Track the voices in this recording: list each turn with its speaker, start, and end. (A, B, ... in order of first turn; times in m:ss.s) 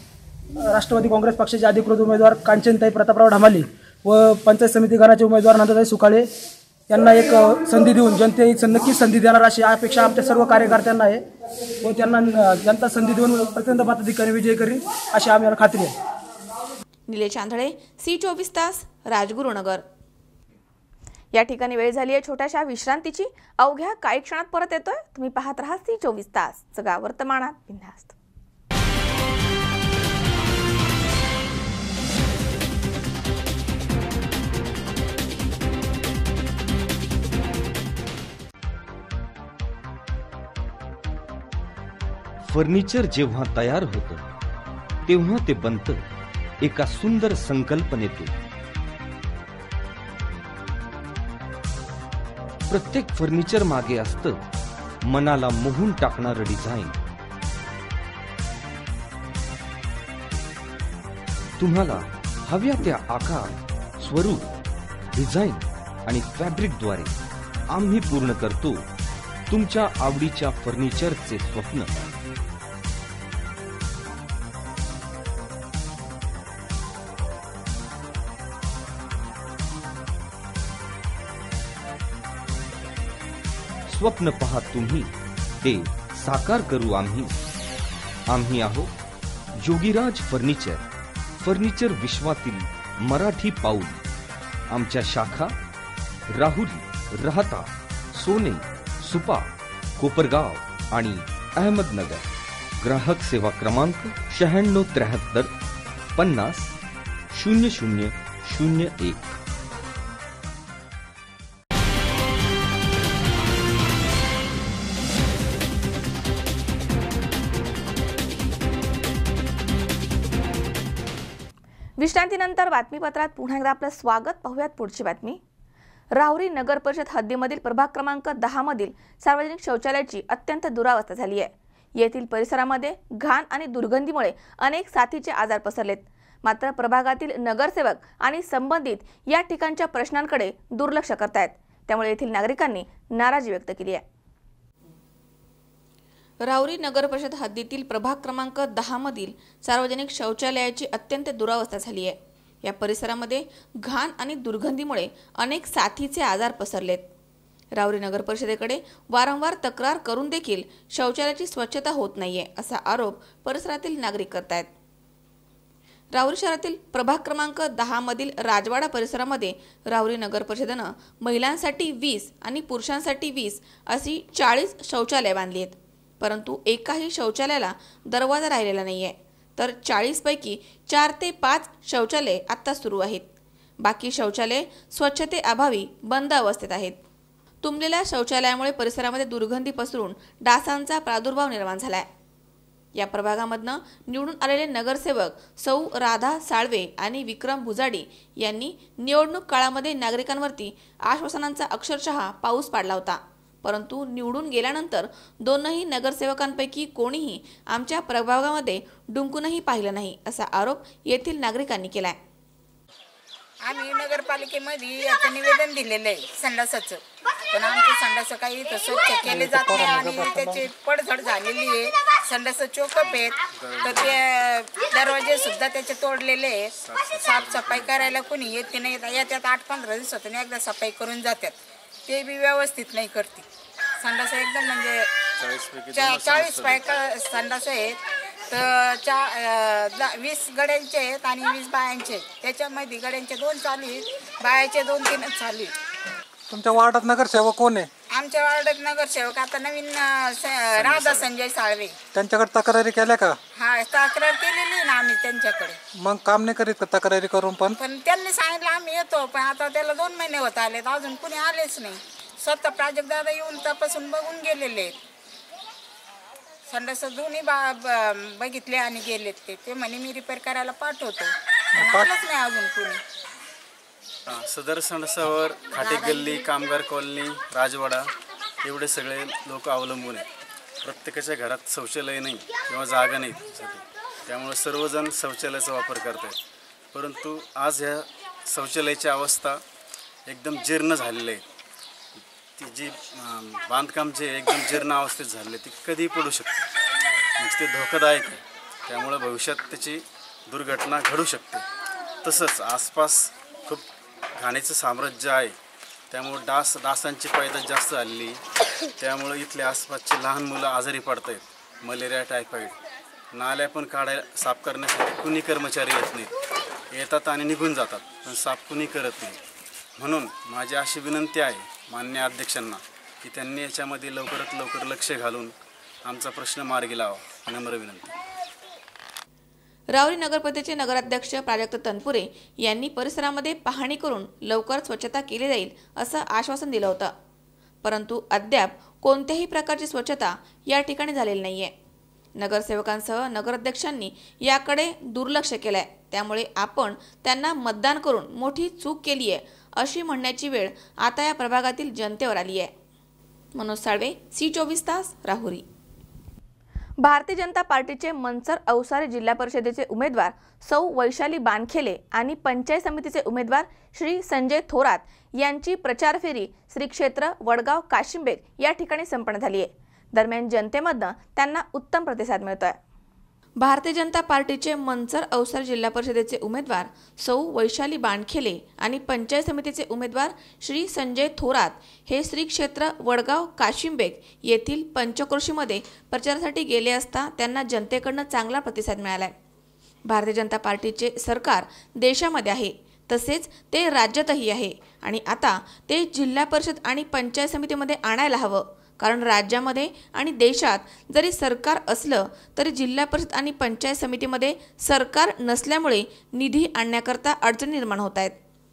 0:00.7-0:06.3 A
0:06.9-0:11.2 A
0:11.8-0:15.9 A
0:17.1-0:19.8 B
0:21.3-0:28.1 B
0:42.4-0:44.2 C
0:45.0-0:46.0 C
0:46.6-0:48.3 C
0:52.7-0:54.4 C
0:55.0-0:57.0 C
1:01.6-1:04.5 C
1:05.1-1:07.1 C
1:07.7-1:08.9 C
1:09.5-1:12.0 C
1:23.9-1:27.4 C
1:28.3-1:28.9 C
1:29.6-1:30.8 C
1:31.4-1:34.0 C
1:34.7-1:35.5 C
1:36.3-1:45.5 C
1:46.2-1:46.8 C
1:47.3-1:49.3 C
2:02.0-2:05.4 B
2:06.1-2:24.0 B
2:26.4-2:37.1 B
2:37.7-2:44.7 B
2:46.1-3:03.3 B
3:03.8-3:07.0 B
3:07.6-3:12.1 B
3:13.0-3:32.2 B
3:33.6-3:53.4 D
3:39.3-3:40.6 E
3:43.5-3:44.1 F
3:46.8-3:48.1 F
3:54.0-3:55.1 D
3:55.4-3:56.8 F
3:55.9-4:05.7 D
4:06.5-4:07.9 E
4:08.1-4:11.9 D
4:10.8-4:11.2 E
4:12.1-4:13.4 E
4:13.6-4:15.8 D
4:15.9-4:17.8 E
4:17.7-4:25.0 D
4:26.7-4:33.0 D
4:34.3-4:38.1 F
4:35.9-4:36.2 D
4:38.6-4:40.3 F
4:40.8-4:46.4 F
4:46.9-4:49.6 F
4:50.3-4:51.4 F
4:52.6-4:56.6 F
4:57.4-5:01.6 F
5:02.2-5:05.6 F
5:06.1-5:08.4 F
5:09.0-5:12.8 F
5:13.3-5:16.3 F
5:16.9-5:19.4 F
5:20.0-5:25.5 F
5:26.0-5:28.1 F
5:29.9-5:37.1 B
5:37.8-5:41.7 B
5:42.4-5:52.7 B
5:53.5-5:55.6 B
5:57.0-6:12.8 B
6:13.6-6:29.3 B
6:30.0-6:48.4 B